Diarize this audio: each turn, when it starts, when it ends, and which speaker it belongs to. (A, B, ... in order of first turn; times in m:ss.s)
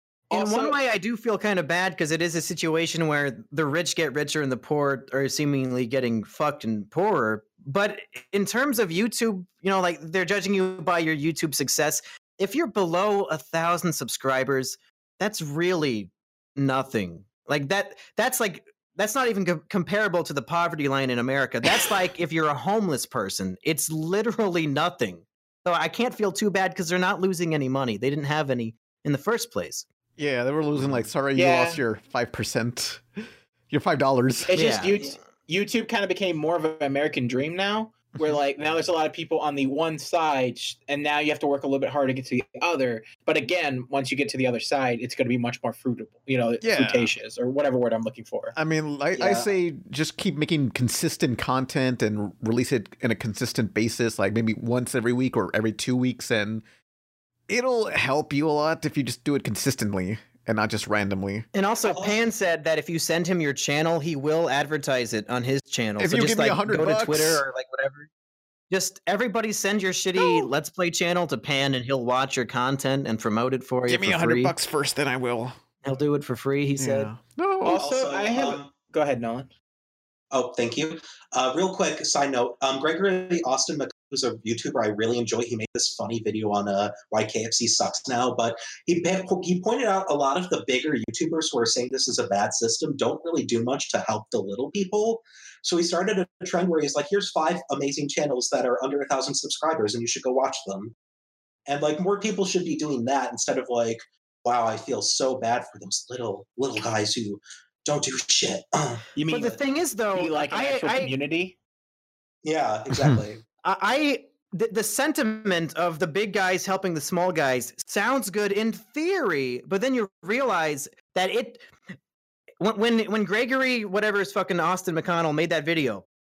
0:00.3-0:00.8 A
0:00.3-0:29.8 B
0:30.2-0:33.0 C
0:31.4-0:31.8 A
0:33.7-0:34.5 C
0:34.4-0:48.6 A
0:34.5-0:35.0 B
0:46.6-0:47.1 C
0:48.5-0:56.6 C
0:49.2-0:49.5 D
0:57.5-1:01.5 C
1:01.5-1:08.1 B
1:01.9-1:02.2 D
1:06.0-1:07.4 C
1:08.7-1:14.5 B
1:10.2-1:10.5 C
1:13.9-1:15.6 C
1:15.8-1:17.1 B
1:16.8-1:17.8 C
1:17.6-1:19.5 A
1:17.7-1:18.7 D
1:20.3-1:40.9 D
1:41.7-1:49.6 D
1:49.3-1:51.1 B
1:50.1-1:51.6 A
1:52.4-1:53.4 D
1:53.6-2:01.6 B
2:02.6-2:06.0 B